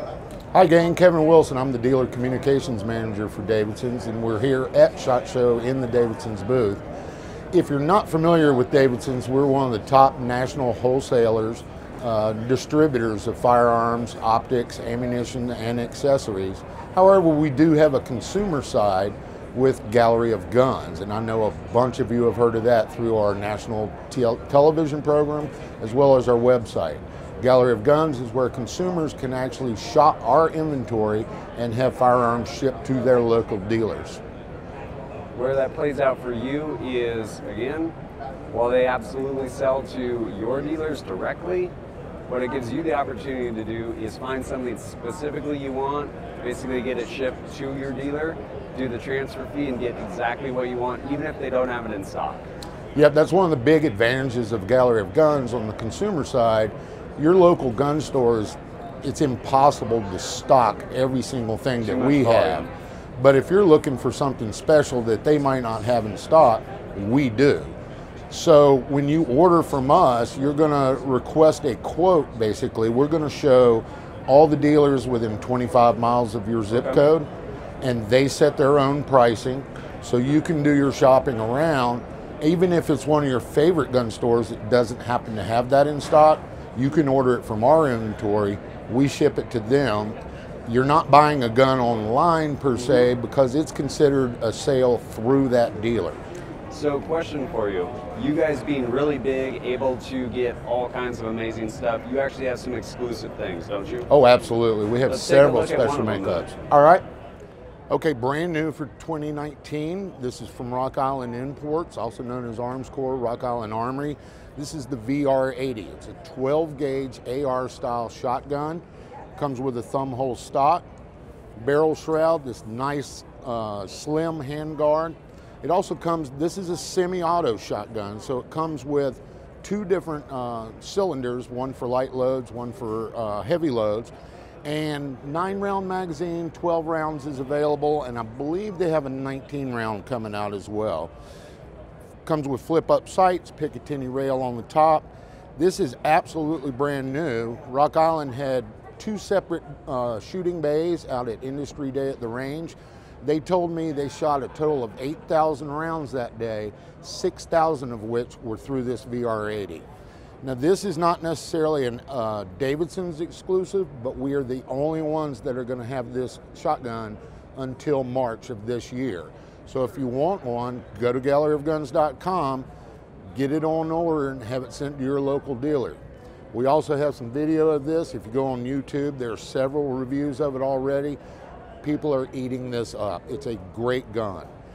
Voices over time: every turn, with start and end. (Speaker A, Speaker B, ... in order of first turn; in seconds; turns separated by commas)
Speaker A: 0.5-6.8, Speaker A: 7.5-34.2, Speaker B: 35.3-37.9, Speaker B: 38.5-41.7, Speaker B: 42.3-52.5, Speaker A: 52.9-67.7, Speaker B: 61.8-62.7, Speaker A: 68.3-77.3, Speaker A: 77.8-96.2, Speaker B: 96.7-104.1, Speaker A: 104.1-107.0, Speaker B: 105.1-106.5, Speaker A: 107.9-118.8, Speaker A: 119.3-120.8, Speaker A: 121.5-134.1, Speaker A: 134.6-141.1, Speaker A: 142.2-159.8, Speaker A: 160.4-172.7, Speaker A: 173.3-176.0, Speaker A: 176.5-181.2, Speaker A: 181.8-184.5